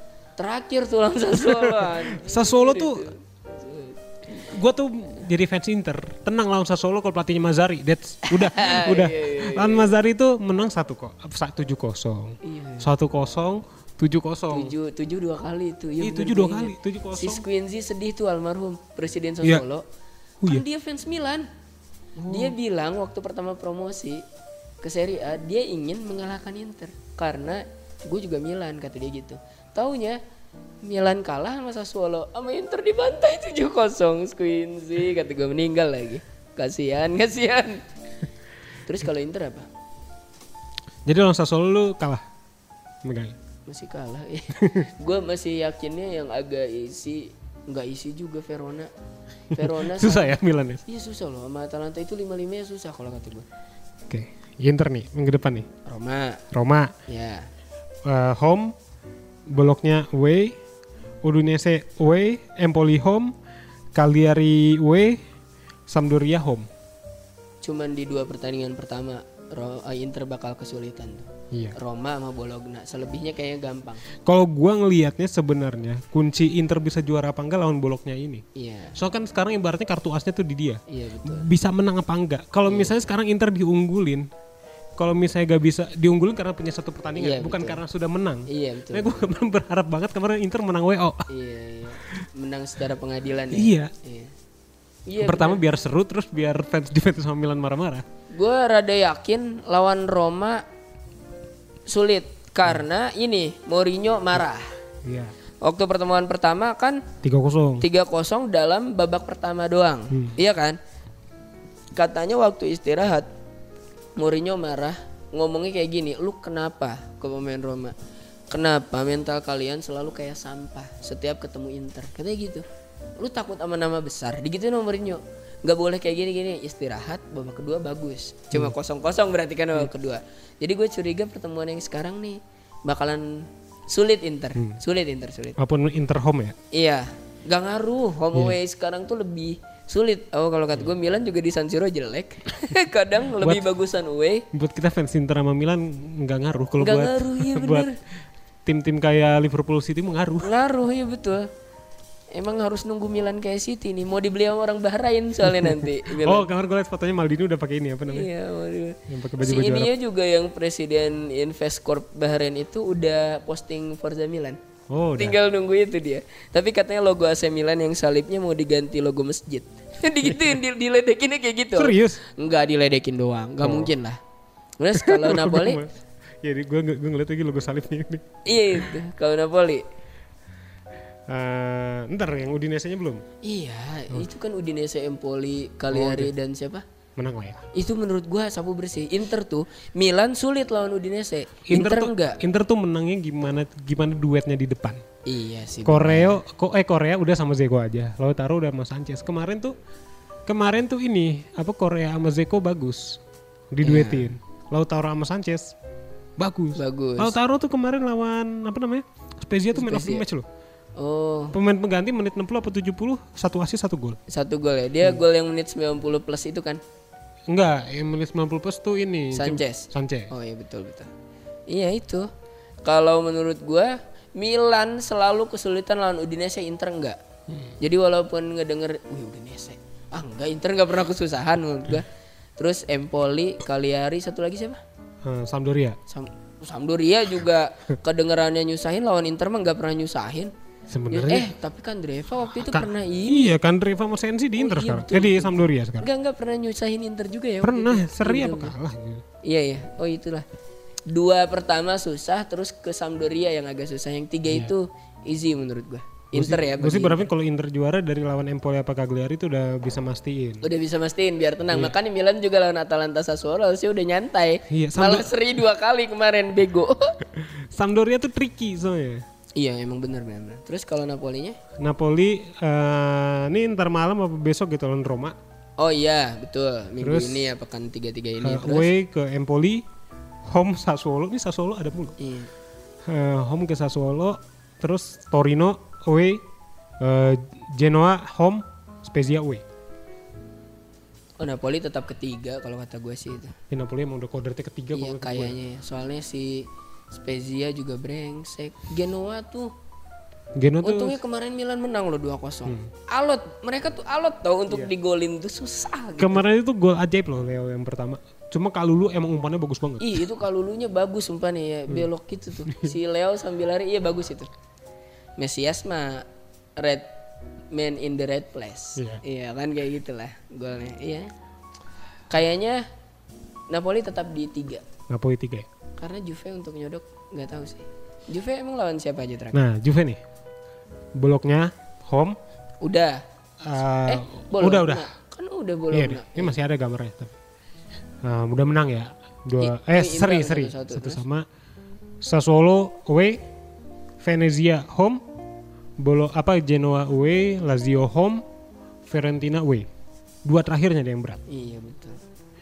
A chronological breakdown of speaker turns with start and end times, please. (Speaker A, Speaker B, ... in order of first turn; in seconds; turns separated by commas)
Speaker A: 0.4-4.5, Speaker B: 1.5-3.1, Speaker B: 4.3-14.7, Speaker A: 8.2-9.9, Speaker A: 12.4-12.9, Speaker A: 14.5-19.8, Speaker B: 16.0-17.4, Speaker A: 20.4-21.5, Speaker B: 22.2-22.5, Speaker A: 22.2-24.2, Speaker A: 24.8-30.2, Speaker A: 30.8-37.8, Speaker A: 38.9-39.7, Speaker B: 41.0-42.2, Speaker B: 43.0-43.4, Speaker A: 43.7-48.9, Speaker B: 44.6-44.9, Speaker A: 49.5-53.5, Speaker B: 49.5-50.8, Speaker B: 54.1-55.7, Speaker A: 55.8-56.4, Speaker B: 56.5-56.9, Speaker A: 57.0-57.5, Speaker B: 58.0-58.7, Speaker B: 59.5-60.6, Speaker B: 61.2-63.3, Speaker B: 63.9-65.2, Speaker B: 65.9-66.7, Speaker A: 67.6-74.1, Speaker B: 74.2-78.4, Speaker A: 78.5-79.0, Speaker B: 79.0-84.3, Speaker A: 80.9-81.5, Speaker A: 82.7-83.0, Speaker B: 85.0-91.3, Speaker A: 87.2-87.8, Speaker A: 88.5-89.3, Speaker A: 91.3-94.3, Speaker B: 93.5-93.9, Speaker A: 95.0-95.6, Speaker B: 95.2-98.0, Speaker A: 98.3-100.6, Speaker A: 101.9-104.7, Speaker B: 105.0-105.3, Speaker A: 105.6-107.1, Speaker B: 107.2-107.8, Speaker A: 107.8-110.8, Speaker B: 110.1-110.4, Speaker A: 111.9-113.3, Speaker A: 114.2-117.9, Speaker A: 118.5-122.6, Speaker A: 123.2-135.6, Speaker B: 135.6-136.6, Speaker A: 136.7-144.4, Speaker B: 144.5-147.9, Speaker A: 146.8-148.0, Speaker B: 148.6-150.5, Speaker A: 150.4-151.5, Speaker A: 152.3-156.4, Speaker B: 156.0-158.3, Speaker A: 158.1-164.6, Speaker B: 159.1-159.9, Speaker B: 164.9-165.4, Speaker A: 165.2-174.2, Speaker B: 171.8-172.2, Speaker B: 173.6-173.9, Speaker A: 174.8-175.8, Speaker B: 174.9-175.9, Speaker B: 176.4-178.4, Speaker A: 178.4-179.8, Speaker B: 181.3-183.2, Speaker A: 183.4-186.8, Speaker B: 185.9-186.3, Speaker B: 187.2-187.7, Speaker A: 187.7-192.4, Speaker B: 191.7-195.0, Speaker A: 195.2-196.4, Speaker B: 195.8-199.7, Speaker B: 200.5-203.2, Speaker B: 203.7-205.7, Speaker A: 203.8-204.3, Speaker B: 206.4-210.4, Speaker A: 206.7-207.4, Speaker A: 209.7-210.2, Speaker A: 211.0-211.5, Speaker B: 211.5-214.2, Speaker A: 214.3-216.8, Speaker B: 217.5-220.3, Speaker A: 219.3-221.1, Speaker A: 221.7-222.3, Speaker A: 222.8-227.2, Speaker A: 227.8-234.8, Speaker B: 235.2-236.0, Speaker A: 236.1-240.5, Speaker B: 240.9-241.5, Speaker A: 241.1-243.6, Speaker B: 242.6-246.1, Speaker A: 244.6-248.7, Speaker B: 247.6-249.2, Speaker A: 249.4-250.4, Speaker A: 251.1-257.3, Speaker B: 256.3-260.7, Speaker A: 260.6-267.2, Speaker B: 261.7-261.9, Speaker B: 264.7-265.3, Speaker B: 267.4-269.2, Speaker A: 269.6-271.6, Speaker B: 271.8-275.4, Speaker A: 275.8-278.9, Speaker B: 277.0-277.5, Speaker B: 278.4-279.8, Speaker B: 280.4-282.2, Speaker A: 282.2-282.5, Speaker B: 283.0-286.4, Speaker B: 287.0-289.6, Speaker A: 291.4-293.5, Speaker B: 293.7-295.6, Speaker A: 294.9-299.7, Speaker B: 300.6-301.2, Speaker A: 300.8-306.4, Speaker B: 306.2-310.2, Speaker A: 310.0-314.5, Speaker B: 312.6-312.9, Speaker A: 315.4-316.2, Speaker A: 316.8-317.1, Speaker A: 317.7-321.3, Speaker B: 318.9-319.2, Speaker A: 322.3-322.9, Speaker A: 323.7-324.8, Speaker B: 325.1-325.7, Speaker A: 326.0-329.6, Speaker B: 329.5-330.2, Speaker B: 331.1-332.4, Speaker A: 332.8-333.2, Speaker B: 333.6-335.1, Speaker A: 334.0-336.6, Speaker B: 335.9-337.3, Speaker B: 338.2-341.4, Speaker A: 339.6-341.2, Speaker B: 342.2-343.4, Speaker B: 344.2-345.2, Speaker B: 346.0-348.4, Speaker B: 349.1-349.9, Speaker B: 350.4-351.4, Speaker A: 351.5-352.2